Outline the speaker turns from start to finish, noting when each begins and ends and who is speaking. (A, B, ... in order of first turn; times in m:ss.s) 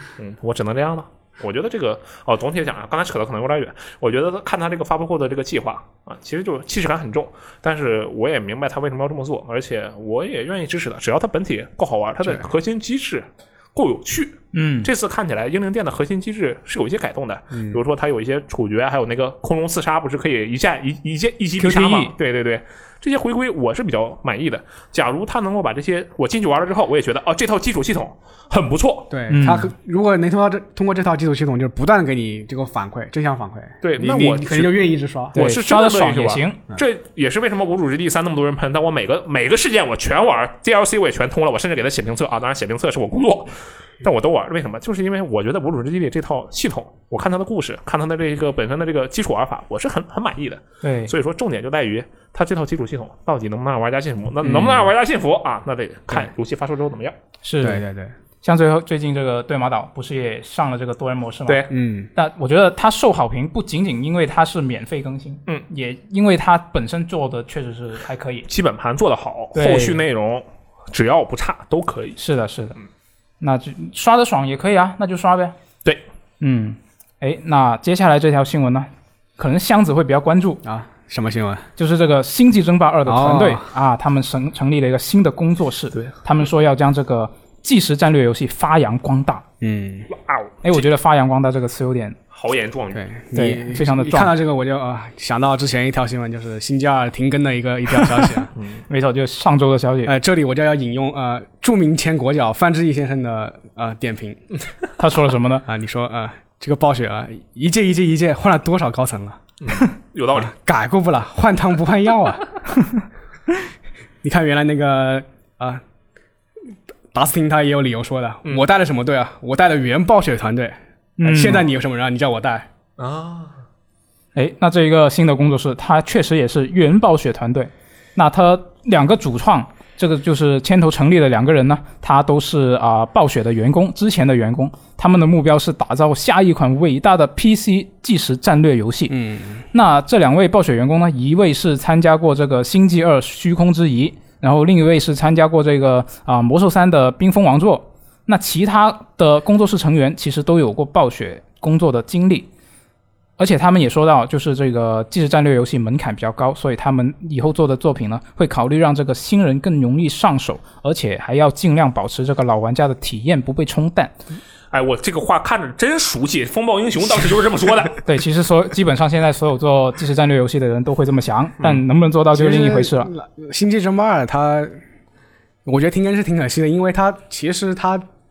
0:00.2-0:29.1 A
0:14.5-0:14.9 B
0:17.5-0:17.8 C
0:21.6-0:22.1 B
0:29.1-0:35.4 C
0:29.3-0:29.7 B
0:33.8-0:34.8 A
0:35.3-0:57.1 A
0:35.3-0:36.6 B
0:50.8-0:51.1 B
0:54.4-0:54.9 C
0:57.4-0:57.8 B
0:57.6-0:58.1 C
0:58.4-1:08.5 B
1:01.7-1:02.1 C
1:08.5-1:12.2 A
1:09.6-1:10.0 B
1:12.2-1:12.8 B
1:13.4-1:15.6 B
1:16.4-1:20.6 B
1:20.6-1:21.7 C
1:21.8-1:29.4 B
1:23.0-1:23.7 C
1:29.6-1:30.1 C
1:30.1-1:30.9 A
1:30.6-1:32.2 B
1:32.3-1:33.1 A
1:32.9-1:38.5 C
1:33.3-1:34.3 B
1:38.9-1:40.1 B
1:40.0-1:44.4 C
1:45.0-1:45.6 B
1:45.7-1:49.4 C
1:49.6-1:50.5 A
1:50.4-1:52.4 C
1:54.2-1:55.8 C
1:57.1-2:02.7 C
2:01.2-2:01.6 B
2:03.0-2:03.6 A
2:04.3-2:19.2 B
2:19.1-2:19.6 C
2:19.7-2:32.5 B
2:33.4-2:44.1 B
2:44.7-2:48.0 A
2:48.0-2:53.1 B
2:52.3-2:54.8 C
2:55.6-2:58.0 C